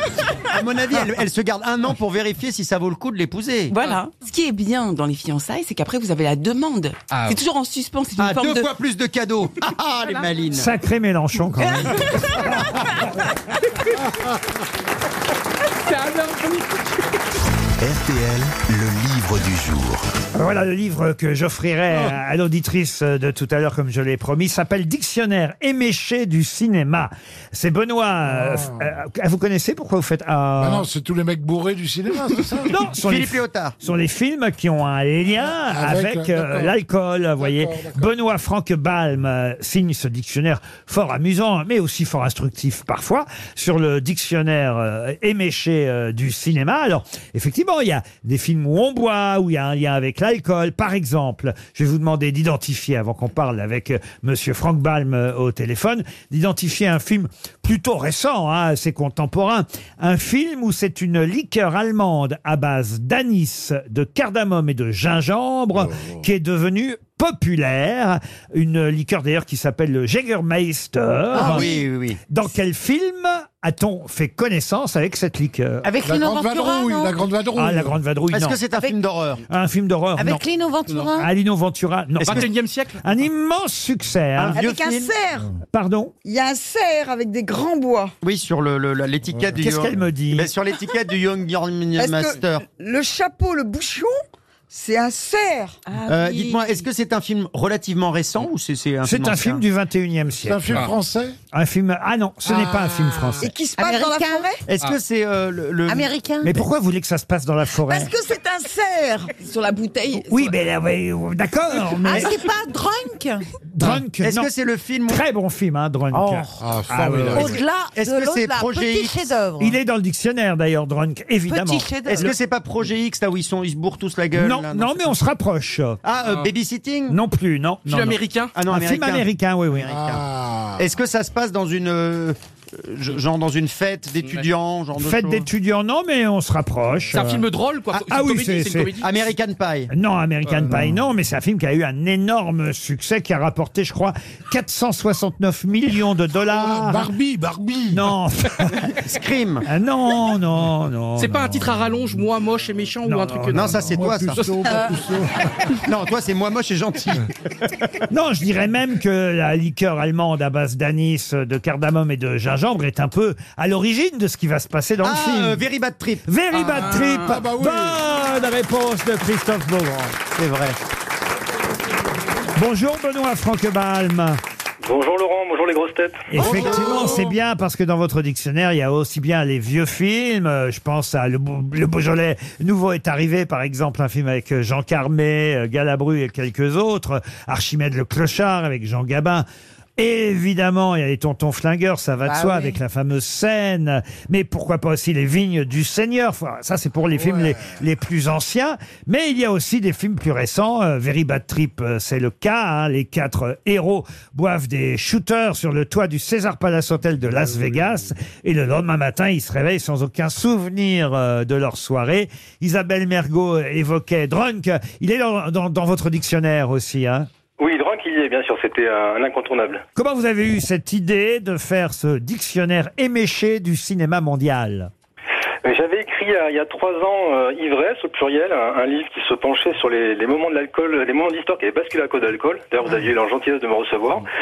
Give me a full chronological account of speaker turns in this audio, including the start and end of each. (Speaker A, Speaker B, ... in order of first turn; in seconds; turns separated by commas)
Speaker A: 0.5-3.8, Speaker B: 3.7-8.7, Speaker C: 7.1-7.4, Speaker A: 8.2-10.7, Speaker D: 10.5-12.6, Speaker C: 15.8-17.0, Speaker E: 17.8-20.1, Speaker D: 20.3-30.9, Speaker F: 28.3-28.8, Speaker F: 30.6-32.7, Speaker D: 32.7-71.7, Speaker A: 33.0-33.8, Speaker F: 35.7-36.8, Speaker F: 37.4-38.0, Speaker F: 65.8-66.2, Speaker G: 71.3-71.8, Speaker A: 71.3-72.2, Speaker D: 72.3-75.9, Speaker G: 75.8-77.2, Speaker F: 76.0-78.0, Speaker D: 77.6-78.6, Speaker A: 78.3-79.4, Speaker D: 79.5-80.4, Speaker G: 80.2-81.3, Speaker D: 81.2-84.6, Speaker A: 82.2-82.5, Speaker C: 82.2-83.0, Speaker A: 84.4-85.1, Speaker H: 84.4-85.5, Speaker D: 85.7-86.1, Speaker H: 86.2-88.1, Speaker A: 88.2-92.7, Speaker D: 89.6-90.5, Speaker H: 92.0-94.1, Speaker H: 94.7-95.8, Speaker B: 95.9-96.9, Speaker A: 96.1-99.6, Speaker D: 99.0-100.9, Speaker F: 100.4-101.4, Speaker D: 101.5-103.5, Speaker F: 102.5-103.4, Speaker H: 103.4-104.6, Speaker G: 103.8-104.5, Speaker A: 104.7-106.1, Speaker G: 105.9-106.6, Speaker D: 106.4-108.1, Speaker H: 107.9-109.3, Speaker B: 109.4-110.5, Speaker D: 110.1-112.3, Speaker G: 112.0-113.5, Speaker D: 113.8-114.5, Speaker A: 114.2-115.2, Speaker D: 115.1-117.6, Speaker G: 116.1-116.6, Speaker F: 116.6-117.6, Speaker G: 117.3-119.8, Speaker A: 117.9-119.2, Speaker D: 119.6-122.3, Speaker G: 121.5-122.3, Speaker A: 122.1-125.0, Speaker D: 124.3-126.0, Speaker A: 126.0-127.2, Speaker C: 126.2-126.5, Speaker D: 127.1-129.9, Speaker C: 127.9-128.5, Speaker A: 128.6-130.3, Speaker F: 129.9-130.8, Speaker A: 130.8-135.5, Speaker D: 135.0-138.9, Speaker C: 137.1-139.3, Speaker A: 139.0-139.9, Speaker D: 139.9-147.1, Speaker F: 140.6-141.0, Speaker F: 146.5-148.0, Speaker D: 147.9-148.9, Speaker A: 149.0-149.7, Speaker D: 149.7-151.7, Speaker C: 151.2-154.8, Speaker D: 153.1-153.9, Speaker A: 153.5-154.4, Speaker F: 153.8-155.3, Speaker A: 155.8-157.3, Speaker D: 158.1-165.6, Speaker A: 165.0-166.2, Speaker D: 166.3-170.2, Speaker F: 166.9-168.0, Speaker A: 170.4-170.8, Speaker D: 172.6-174.4, Speaker I: 174.8-176.3, Speaker D: 176.3-189.5, Speaker F: 176.4-177.3, Speaker A: 176.4-177.1, Speaker D: 190.0-217.3, Speaker G: 192.2-192.8, Speaker I: 217.6-219.8, Speaker D: 220.0-224.9, Speaker I: 225.6-234.3